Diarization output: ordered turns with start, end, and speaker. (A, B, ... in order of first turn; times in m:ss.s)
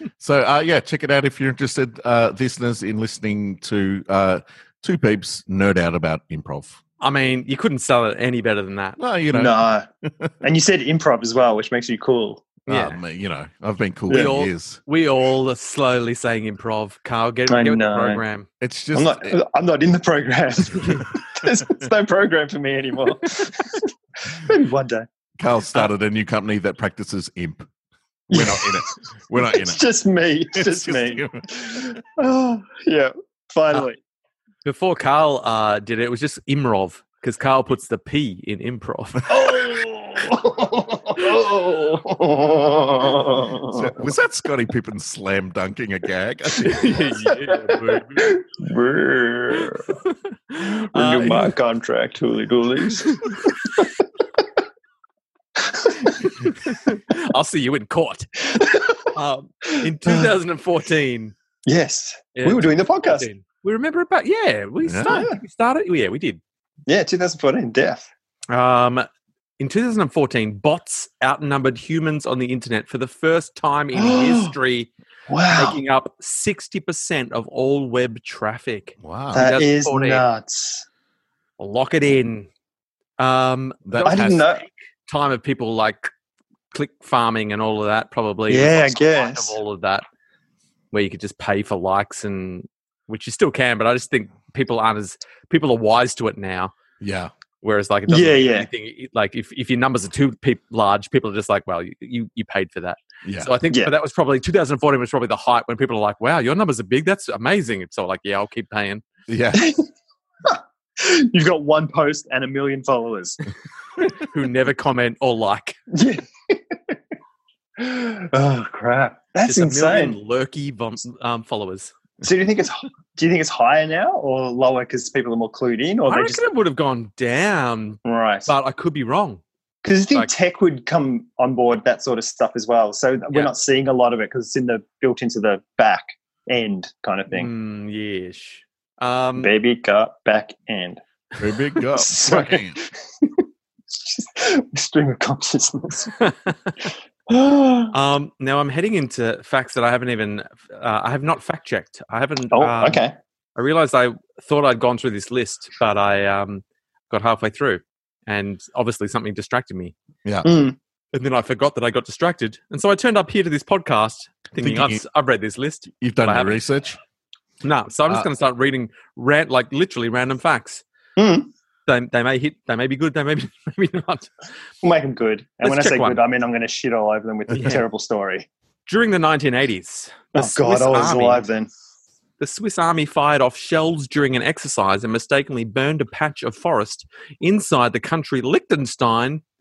0:00.2-0:06.8 A
0:07.0-0:09.0 B
0:09.0-0:10.3 A
0:09.3-0:09.9 C
0:10.4-0:12.5 C
0:12.7-0:13.0 B
0:12.7-0:14.8 A
0:14.1-0:14.3 C
0:14.1-0:18.5 B
0:17.5-0:18.2 C
0:18.6-0:19.4 A
0:18.9-0:25.1 C
0:25.4-0:27.7 A
0:28.3-0:29.8 A
0:28.3-0:34.0 C
0:30.5-0:32.0 A
0:34.6-0:39.3 B
0:39.3-0:43.9 C
0:43.7-0:47.1 A
0:46.6-0:48.4 B
0:47.5-0:49.9 C
0:50.5-0:51.5 B
0:50.9-0:53.9 C
0:55.6-0:56.3 C
0:56.5-0:58.4 B
0:58.5-0:59.1 C
0:59.1-1:01.4 B
0:59.8-1:00.3 C
1:01.7-1:03.3 C
1:02.4-1:06.4 B
1:04.8-1:05.2 A
1:05.1-1:05.4 C
1:06.9-1:08.1 C
1:08.5-1:09.1 B
1:09.6-1:14.9 B
1:13.9-1:14.6 C
1:15.3-1:15.8 C
1:15.5-1:20.2 B
1:19.0-1:19.5 A
1:19.3-1:20.9 C
1:21.6-1:22.5 B
1:23.2-1:26.1 B
1:23.9-1:24.5 A
1:24.0-1:24.6 C
1:26.7-1:30.0 B
1:28.5-1:29.6 C
1:30.9-1:36.8 B
1:37.0-1:37.3 A
1:37.6-1:49.0 B
1:38.1-1:38.7 C
1:43.2-1:43.5 A
1:49.3-1:49.7 A
1:49.5-1:49.8 C
1:50.4-1:53.4 C
1:54.2-1:55.8 B
1:55.9-1:57.0 C
1:57.8-2:00.2 C
1:59.4-2:01.9 B
2:02.2-2:06.4 C
2:06.1-2:09.4 B
2:08.0-2:08.5 C
2:09.8-2:17.5 C
2:17.3-2:19.5 B
2:19.4-2:21.0 C
2:21.4-2:22.8 A
2:22.0-2:26.1 C
2:26.2-2:26.7 B
2:27.3-2:27.9 C
2:27.9-2:33.0 B
2:32.5-2:33.2 C
2:33.6-2:39.9 B
2:40.2-2:40.5 A
2:40.4-2:40.8 C
2:41.1-2:46.6 B
2:44.6-2:45.0 A
2:46.0-2:47.0 A
2:47.6-2:50.8 B
2:51.2-2:51.5 C
2:51.9-2:54.3 B
2:54.8-2:58.5 C
2:55.6-2:56.2 B
2:57.5-2:57.8 B
2:58.9-3:01.4 B
3:00.4-3:01.7 C
3:02.4-3:09.4 B